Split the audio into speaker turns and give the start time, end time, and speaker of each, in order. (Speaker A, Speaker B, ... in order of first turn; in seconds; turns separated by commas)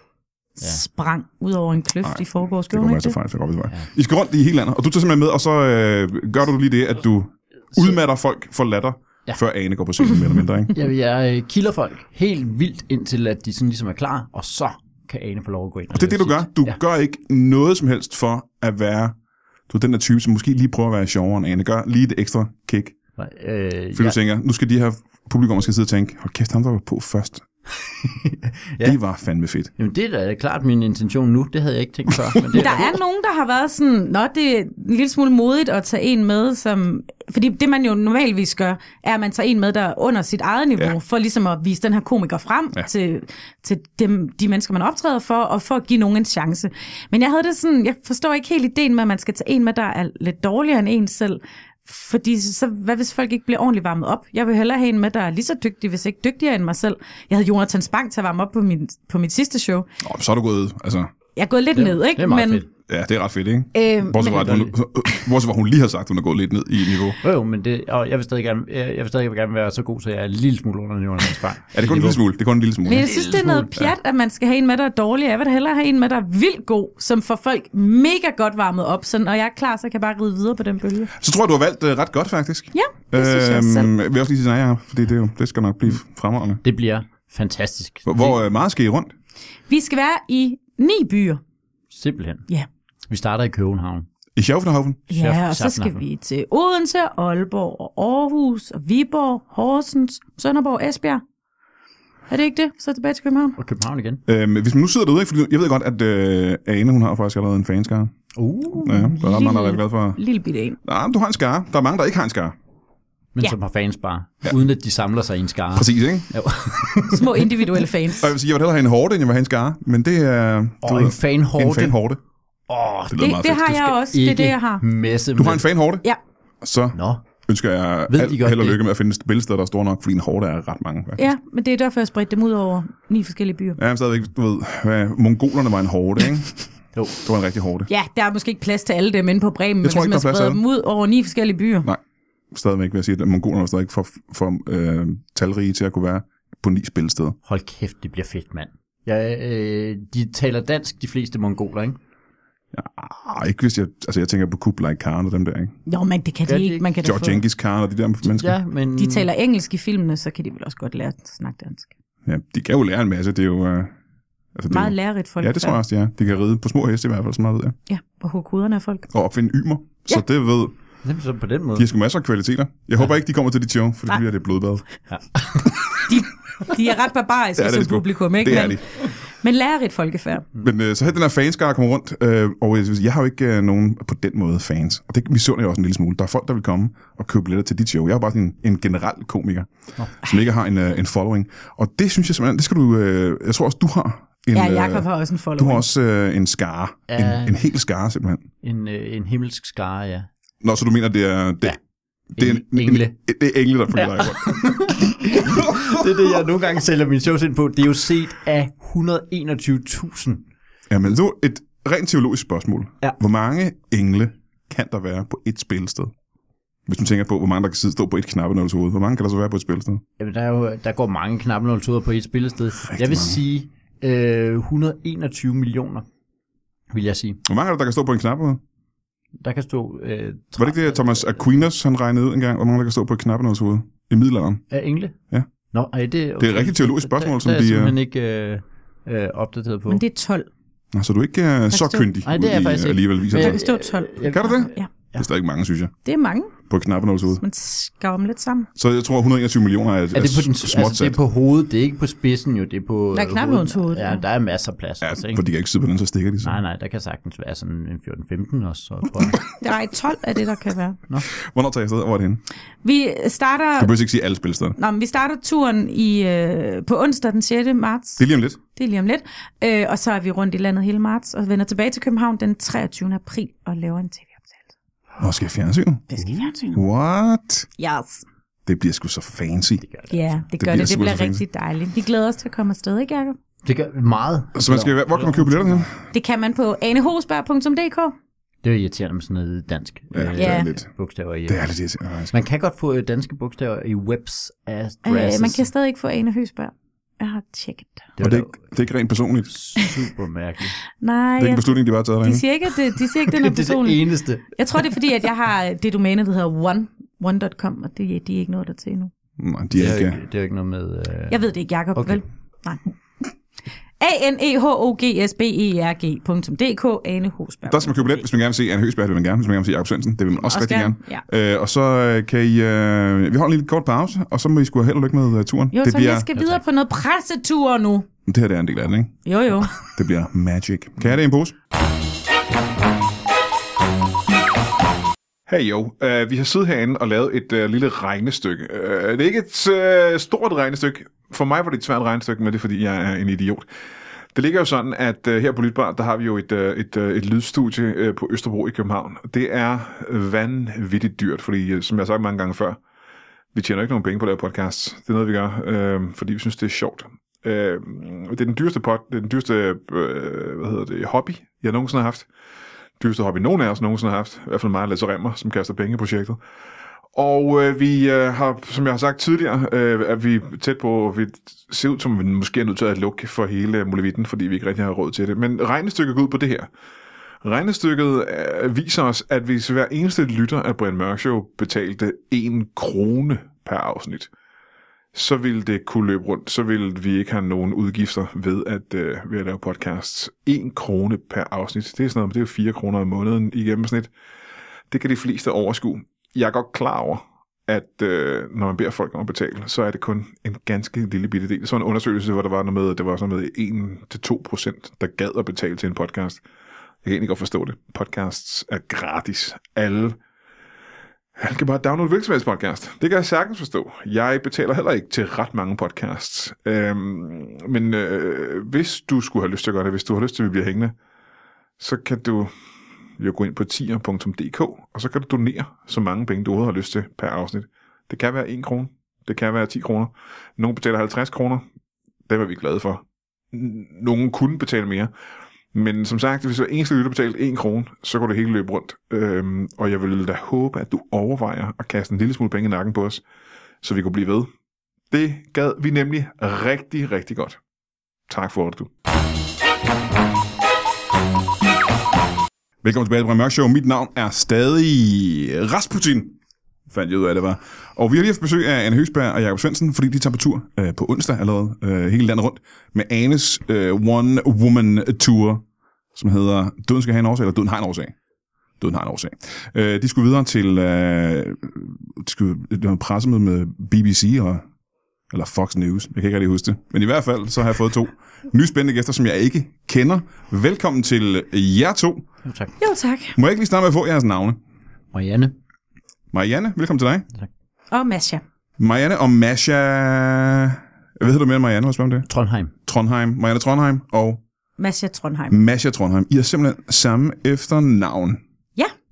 Speaker A: 0.6-3.1, Speaker B: 2.0-10.7, Speaker C: 10.7-16.8, Speaker B: 15.9-19.1, Speaker B: 19.7-22.9, Speaker C: 23.2-24.2, Speaker B: 23.9-27.5, Speaker C: 28.0-29.0, Speaker B: 28.8-29.7, Speaker C: 29.8-32.9, Speaker B: 32.3-32.8, Speaker A: 32.5-59.9, Speaker B: 60.0-61.1, Speaker A: 61.4-62.6, Speaker C: 61.7-62.7, Speaker B: 62.9-67.2, Speaker A: 63.7-64.6, Speaker C: 64.2-64.7, Speaker C: 67.2-72.2, Speaker B: 71.7-73.1, Speaker A: 72.8-81.1, Speaker C: 72.9-73.9, Speaker B: 81.2-86.6, Speaker A: 82.7-83.9, Speaker C: 86.6-88.4, Speaker B: 88.0-89.1, Speaker A: 89.7-91.4, Speaker C: 91.9-92.5, Speaker C: 93.1-94.0, Speaker B: 94.3-95.0, Speaker A: 95.1-101.2, Speaker C: 95.1-96.0, Speaker A: 102.3-103.6, Speaker C: 103.6-104.2, Speaker B: 104.3-108.1, Speaker C: 108.3-109.0, Speaker B: 108.8-110.2, Speaker A: 108.8-110.8, Speaker B: 110.8-112.5, Speaker C: 113.3-117.5, Speaker B: 115.7-117.0, Speaker A: 117.1-118.3, Speaker B: 118.2-122.2, Speaker C: 120.8-122.0, Speaker C: 122.7-123.5, Speaker B: 123.1-123.9, Speaker A: 123.2-124.8, Speaker C: 124.1-125.7, Speaker B: 125.4-126.0, Speaker B: 126.6-131.3, Speaker C: 126.9-127.2, Speaker C: 128.1-128.8, Speaker A: 131.2-133.8, Speaker B: 133.8-136.6, Speaker B: 137.2-137.9, Speaker A: 137.9-141.9, Speaker B: 139.8-140.6, Speaker B: 142.5-147.4, Speaker C: 147.4-152.0, Speaker B: 152.7-155.7, Speaker A: 155.9-157.4, Speaker C: 156.4-156.8, Speaker B: 157.0-158.6, Speaker C: 158.2-159.3, Speaker A: 159.0-161.9, Speaker B: 162.2-163.9, Speaker B: 164.5-167.8, Speaker A: 164.7-165.8, Speaker A: 167.9-169.1, Speaker B: 169.1-170.7, Speaker C: 171.0-171.9, Speaker B: 171.8-174.8, Speaker C: 175.1-175.7, Speaker A: 176.0-178.8, Speaker B: 177.6-178.8, Speaker A: 179.4-180.5, Speaker B: 180.6-198.4, Speaker A: 194.5-195.8, Speaker C: 197.1-197.6, Speaker C: 198.6-200.3, Speaker B: 200.6-201.8, Speaker C: 202.3-203.1, Speaker B: 202.3-206.0, Speaker C: 203.9-210.4, Speaker B: 210.9-216.1, Speaker B: 216.9-220.0, Speaker C: 220.2-226.1, Speaker B: 222.8-223.4, Speaker C: 226.9-227.4, Speaker B: 227.4-228.6, Speaker C: 229.4-231.6, Speaker B: 230.6-234.6, Speaker C: 234.7-235.2, Speaker C: 235.7-240.0, Speaker B: 236.4-237.9, Speaker A: 239.9-240.5, Speaker B: 240.9-243.6, Speaker A: 241.7-242.1, Speaker C: 242.2-245.2, Speaker A: 243.3-244.9, Speaker B: 244.3-245.9, Speaker A: 246.0-246.5, Speaker B: 246.7-247.4, Speaker A: 247.4-248.7, Speaker B: 248.8-251.2, Speaker C: 250.1-255.4, Speaker A: 253.1-254.2, Speaker B: 255.0-256.6, Speaker C: 256.4-259.4, Speaker A: 259.5-261.0, Speaker B: 261.4-262.4, Speaker A: 262.8-263.9, Speaker B: 263.8-264.8, Speaker A: 264.8-268.2, Speaker B: 268.2-268.6, Speaker A: 268.7-274.4, Speaker B: 275.2-276.0, Speaker A: 276.1-276.8, Speaker C: 276.2-276.5, Speaker B: 276.7-277.7, Speaker A: 277.8-278.2, Speaker B: 278.6-279.8, Speaker C: 279.8-280.2, Speaker A: 280.1-283.4, Speaker B: 280.6-281.4, Speaker C: 283.6-285.9, Speaker B: 284.5-286.0, Speaker A: 286.1-288.1, Speaker C: 288.6-291.6, Speaker B: 290.1-290.9, Speaker A: 290.4-290.7, Speaker B: 291.5-292.3, Speaker C: 292.3-295.7, Speaker A: 295.0-298.1, Speaker C: 298.2-298.6, Speaker B: 298.2-299.5, Speaker C: 299.5-300.8, Speaker A: 301.0-309.1, Speaker B: 301.4-302.4, Speaker C: 303.3-304.9, Speaker B: 309.4-310.2, Speaker C: 309.7-311.4, Speaker A: 311.3-312.8, Speaker C: 311.9-312.2, Speaker A: 314.0-318.2, Speaker B: 317.7-326.3, Speaker A: 320.4-321.2, Speaker A: 325.7-328.1, Speaker B: 328.3-329.1, Speaker A: 329.2-329.7, Speaker B: 329.8-331.6, Speaker B: 335.5-343.6, Speaker B: 344.3-352.8, Speaker B: 353.5-362.3, Speaker B: 363.0-366.4, Speaker B: 367.1-376.7, Speaker B: 377.4-384.3, Speaker B: 385.1-394.1, Speaker B: 394.9-406.4, Speaker B: 407.0-410.2, Speaker B: 411.4-420.9, Speaker B: 421.8-422.5, Speaker B: 423.2-431.6, Speaker B: 432.3-435.1, Speaker B: 435.7-443.2, Speaker B: 443.8-444.5, Speaker B: 445.1-447.6, Speaker B: 448.3-448.9, Speaker B: 452.8-456.4, Speaker B: 456.9-465.6, Speaker B: 466.1-468.1, Speaker B: 468.8-474.6, Speaker B: 475.3-482.3, Speaker C: 482.4-482.7, Speaker A: 482.8-483.4, Speaker B: 483.3-484.6, Speaker C: 485.1-485.5, Speaker B: 486.3-487.3, Speaker A: 487.9-488.4, Speaker B: 488.8-492.3, Speaker C: 492.3-492.7, Speaker B: 492.8-494.4, Speaker A: 494.8-495.6, Speaker B: 495.5-498.4